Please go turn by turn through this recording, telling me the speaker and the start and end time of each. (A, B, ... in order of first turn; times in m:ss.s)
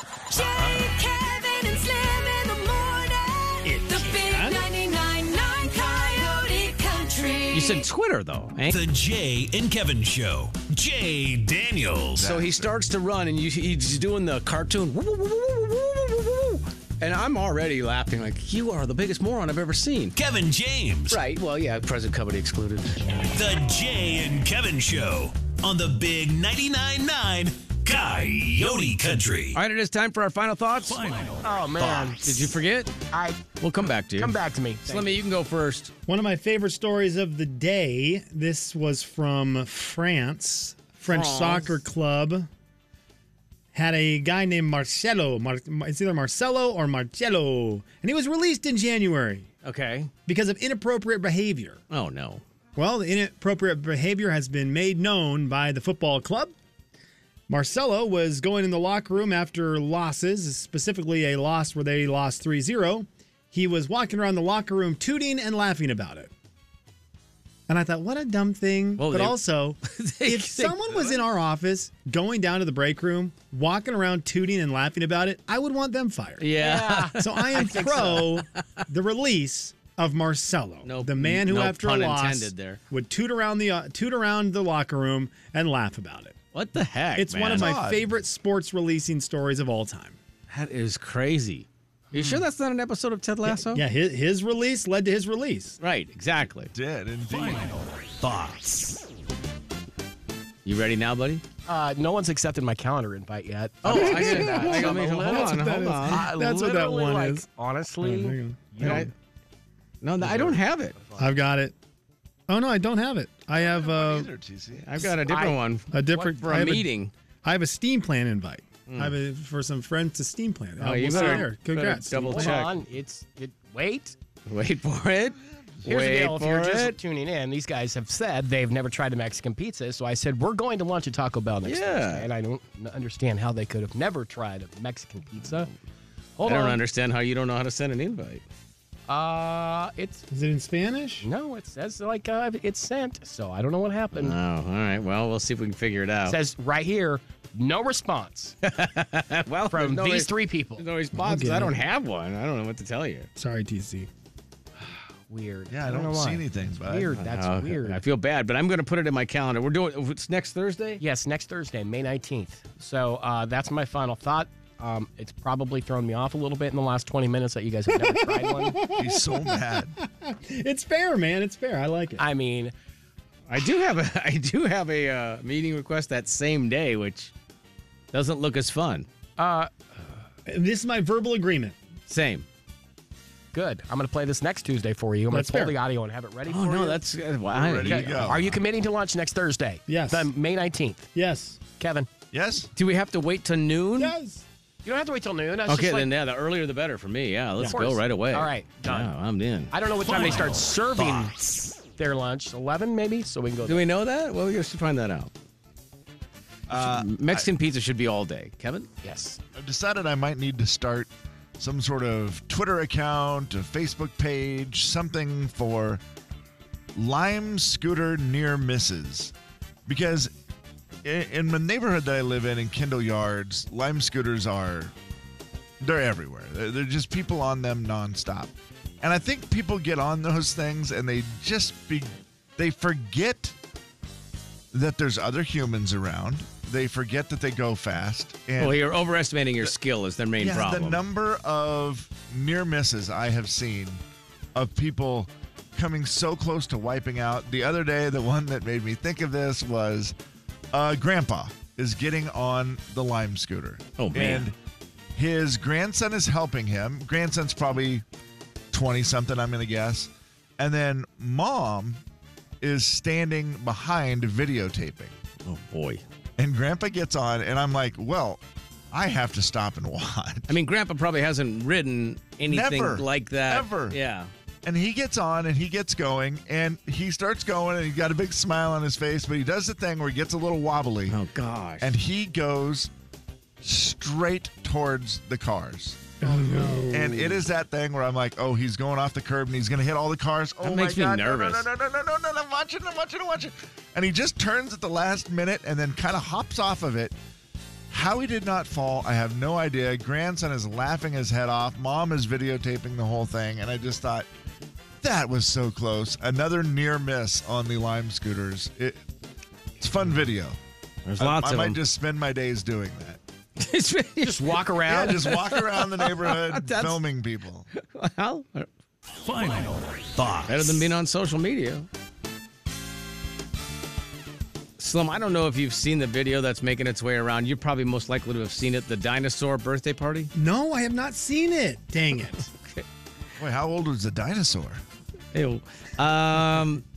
0:00.3-0:07.9 A
0:03.6-0:04.7 B
0:07.5-0:08.8 C
0:08.7-0:12.3 D
0:12.2-0:12.7 E
0:12.2-0:20.1 C
0:20.1-0:21.2 D
0:21.1-0:23.2 C
0:23.2-0:29.6 D
0:29.6-0:31.3 C
0:30.9-0:32.1 D
0:31.4-0:32.6 F
0:32.0-0:32.9 C
0:33.1-0:33.4 F
0:33.6-0:35.9 C
0:34.1-0:35.2 F
0:36.1-0:42.5 B
0:41.1-0:41.8 C
0:43.7-0:49.5 B
0:49.6-0:50.1 C
0:50.3-0:51.8 B
0:51.9-0:52.4 C
0:52.8-0:56.5 B
0:57.5-1:06.3 B
1:07.7-1:16.5 B
1:09.0-1:11.0 C
1:16.4-1:18.4 C
1:16.6-1:18.3 F
1:17.2-1:26.4 B
1:20.8-1:22.8 C
1:26.5-1:27.8 C
1:27.1-1:30.2 B
1:27.5-1:28.0 E
1:30.5-1:33.8 C
1:33.4-1:35.8 B
1:35.8-1:36.7 C
1:36.7-1:37.9 E
1:38.2-1:39.0 D
1:40.6-1:41.4 C
1:41.7-1:49.1 F
1:43.8-1:46.2 C
1:43.8-1:47.4 B
1:48.0-1:49.0 B
1:48.8-1:49.1 C
1:50.0-1:51.0 C
1:50.2-1:51.3 F
1:51.2-1:51.7 B
1:52.5-1:54.3 B
1:53.6-1:55.1 E
1:54.8-1:57.1 C
1:55.2-1:55.6 F
1:55.9-1:56.9 B
1:57.4-2:02.6 B
1:58.9-1:59.1 C
2:00.8-2:02.8 C
2:01.1-2:01.5 F
2:02.2-2:04.1 F
2:04.5-2:07.0 C
2:05.8-2:15.7 F
2:11.6-2:12.3 C
2:16.4-2:16.8 F
2:16.4-2:18.4 C
2:19.1-2:20.2 F
2:20.3-2:21.2 B
2:21.2-2:24.4 F
2:24.2-2:26.4 C
2:26.2-2:28.6 F
2:28.6-2:33.3 C
2:29.7-2:30.9 F
2:31.1-2:31.9 B
2:33.4-2:34.1 B
2:35.3-2:38.0 F
2:35.7-2:37.2 E
2:37.2-2:41.0 C
2:41.0-2:48.8 F
2:48.0-2:52.2 B
2:48.9-2:50.0 E
2:52.2-2:52.7 F
2:53.5-2:57.3 C
2:58.1-2:59.1 C
2:59.4-2:59.7 F
3:00.4-3:01.8 B
3:02.1-3:02.4 C
3:03.5-3:07.0 F
3:05.3-3:05.8 B
3:06.5-3:08.4 C
3:07.5-3:08.6 E
3:07.9-3:11.1 F
3:09.9-3:10.3 B
3:11.1-3:11.6 B
3:11.8-3:12.1 F
3:12.3-3:12.7 E
3:12.8-3:14.1 C
3:14.0-3:14.4 B
3:14.8-3:16.1 F
3:15.7-3:20.4 C
3:17.6-3:17.8 B
3:17.6-3:19.1 F
3:19.7-3:21.3 F
3:21.0-3:21.3 E
3:22.0-3:23.9 F
3:23.6-3:25.3 C
3:26.7-3:27.5 E
3:26.7-3:28.9 C
3:29.0-3:29.4 F
3:29.6-3:36.0 E
3:37.0-3:39.3 E
3:39.9-3:40.3 E
3:41.0-3:44.9 E
3:45.8-3:53.6 E
3:54.7-3:58.8 E
3:58.6-4:01.0 C
4:00.4-4:04.0 E
4:04.6-4:10.1 E
4:10.7-4:14.6 E
4:14.0-4:14.5 C
4:15.2-4:18.0 E
4:18.7-4:22.0 E
4:22.6-4:25.2 E
4:25.4-4:26.0 C
4:26.4-4:28.4 E
4:28.9-4:30.5 E
4:30.5-4:34.3 C
4:32.5-4:34.0 E
4:34.6-4:41.2 E
4:41.1-4:41.9 C
4:41.8-4:42.9 E
4:43.6-4:46.2 E
4:46.2-4:47.4 B
4:46.3-4:46.9 C
4:46.9-4:57.2 E
4:50.6-4:51.7 C
4:57.9-5:04.3 E
5:05.0-5:09.0 E
5:09.8-5:10.6 E
5:11.0-5:11.8 C
5:11.2-5:13.2 E
5:13.6-5:17.0 C
5:14.2-5:15.4 F
5:14.9-5:17.7 E
5:17.7-5:18.7 C
5:19.2-5:20.9 D
5:20.4-5:21.9 C
5:24.8-5:30.3 C
5:30.4-5:32.5 B
5:32.6-5:32.8 C
5:33.4-5:34.8 E
5:35.3-5:36.8 C